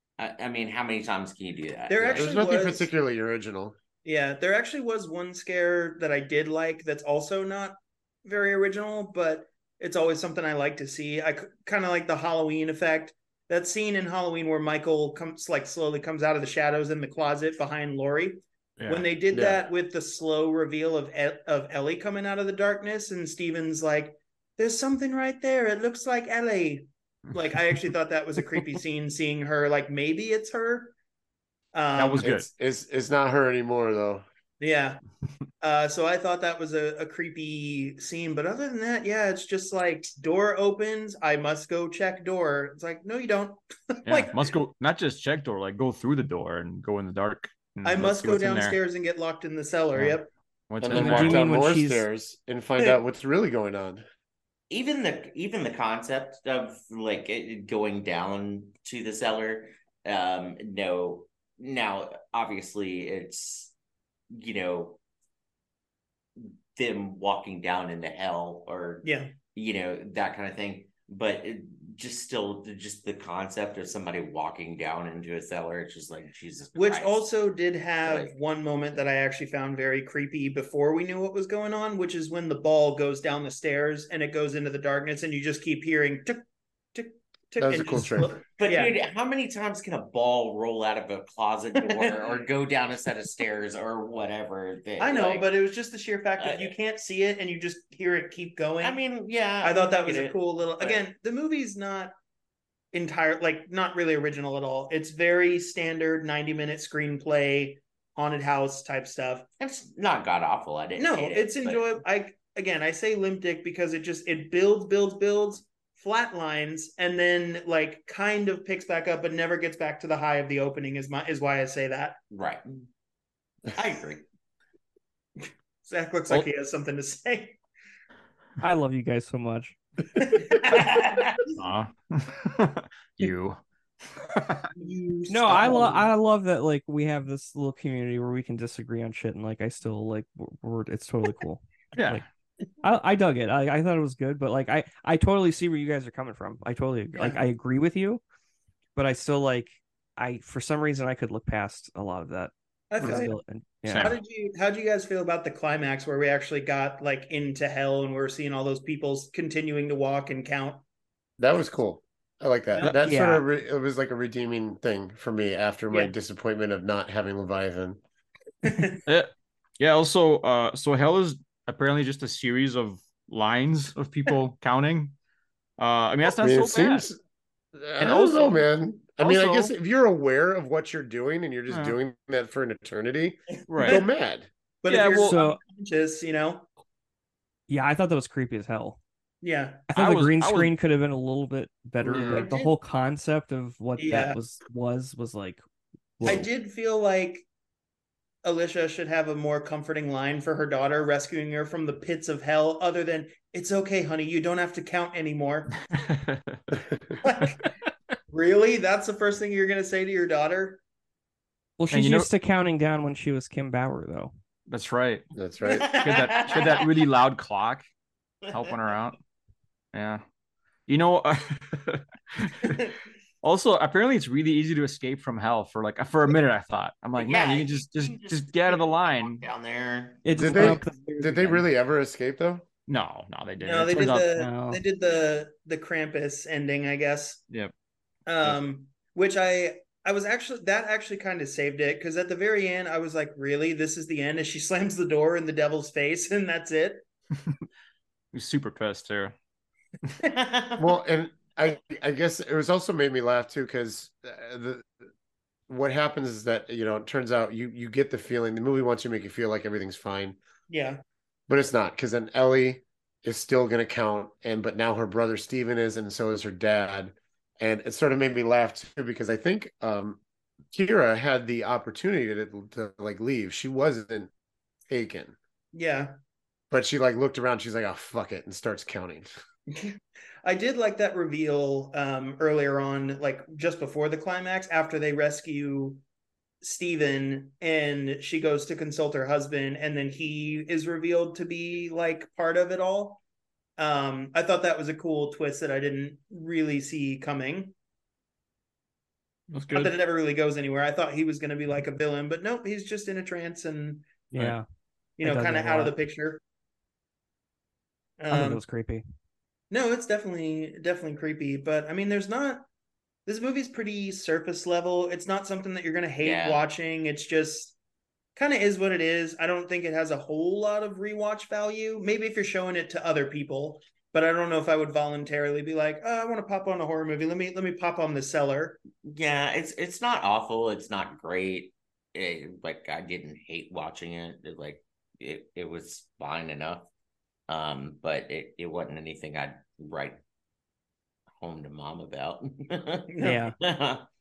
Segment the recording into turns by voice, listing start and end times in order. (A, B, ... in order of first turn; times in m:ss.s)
0:00.2-0:02.4 A
0:01.9-0:02.9 B
0:02.0-0:03.8 C
0:04.0-0:30.9 B
0:18.8-0:19.1 D
0:19.3-0:19.6 C
0:27.3-0:27.8 D
0:31.7-0:32.3 B
0:32.0-0:32.5 D
0:32.2-0:34.2 C
0:34.6-0:35.0 B
0:35.6-0:44.5 B
0:44.1-0:48.8 D
0:47.8-0:50.3 B
0:50.0-0:51.5 D
0:50.8-0:54.0 C
0:50.9-0:52.1 E
0:54.7-1:03.7 A
1:04.3-1:05.0 A
1:06.4-1:17.2 A
1:09.0-1:09.3 B
1:16.8-1:29.0 B
1:18.0-1:18.3 A
1:27.6-1:28.4 C
1:28.6-1:35.5 A
1:31.9-1:32.4 B
1:35.0-1:39.0 B
1:36.4-1:36.7 A
1:38.8-1:41.0 A
1:39.6-1:42.1 B
1:42.9-1:49.4 B
1:49.6-1:52.0 A
1:51.0-2:02.2 B
2:02.3-2:02.9 A
2:03.7-2:04.2 A
2:05.8-2:07.6 B
2:08.6-2:09.8 E
2:10.2-2:11.6 B
2:11.6-2:13.6 D
2:14.2-2:14.7 D
2:14.8-2:16.1 B
2:15.3-2:22.2 E
2:22.0-2:22.2 D
2:22.8-2:28.2 E
2:27.2-2:27.4 B
2:29.0-2:34.1 E
2:32.9-2:33.3 B
2:33.0-2:33.2 C
2:33.9-2:34.2 D
2:34.0-2:40.8 B
2:41.4-2:48.0 C
2:43.0-2:43.4 E
2:48.6-2:49.0 B
2:49.1-2:55.2 D
2:55.8-2:57.0 D
2:56.3-2:57.2 C
2:57.8-3:04.5 C
2:58.0-2:58.6 D
2:59.2-2:59.7 D
3:01.7-3:02.0 D
3:03.7-3:04.0 D
3:03.8-3:04.1 B
3:04.8-3:06.7 B
3:04.9-3:05.4 D
3:05.2-3:05.6 E
3:07.7-3:09.0 E
3:09.4-3:09.9 B
3:09.9-3:15.6 E
3:10.0-3:10.8 D
3:12.0-3:12.5 C
3:12.2-3:12.7 B
3:14.0-3:14.4 B
3:16.2-3:16.5 E
3:16.2-3:17.5 B
3:18.4-3:25.7 B
3:25.9-3:26.6 D
3:26.9-3:27.2 C
3:27.2-3:27.7 B
3:28.3-3:30.8 B
3:31.8-3:34.3 E
3:31.9-3:32.3 D
3:34.7-3:35.3 D
3:35.3-3:36.0 C
3:35.7-3:36.9 A
3:35.8-3:37.9 D
3:38.5-3:38.8 A
3:38.5-3:39.2 D
3:39.9-3:40.2 D
3:40.9-3:42.8 D
3:43.4-3:49.4 D
3:47.2-3:50.2 A
3:50.2-3:51.7 E
3:50.3-3:52.6 C
3:52.9-3:54.3 D
3:53.6-3:57.4 B
3:54.4-3:54.8 E
3:58.3-4:07.0 B
4:08.3-4:09.3 D
4:10.3-4:11.0 A
4:10.8-4:14.9 C
4:15.7-4:20.4 C
4:20.7-4:21.0 B
4:21.5-4:30.2 C
4:30.7-4:34.3 C
4:34.9-4:35.4 C
4:35.7-4:36.1 B
4:36.7-4:39.3 C
4:39.7-4:46.0 B
4:46.6-4:53.2 B
4:53.8-4:57.7 B
4:59.5-5:00.0 D
4:59.7-5:04.2 B
5:04.3-5:04.6 D
5:04.3-5:04.6 E
5:05.2-5:06.4 B
5:05.2-5:06.0 E
5:08.2-5:08.6 B
5:08.3-5:09.0 E
5:09.7-5:12.7 B
5:13.3-5:17.8 B
5:16.2-5:16.6 A
5:18.4-5:28.8 B
5:29.0-5:36.9 A
5:37.5-5:40.2 A
5:41.4-5:44.1 A
5:43.1-5:43.4 B
5:43.2-5:43.6 E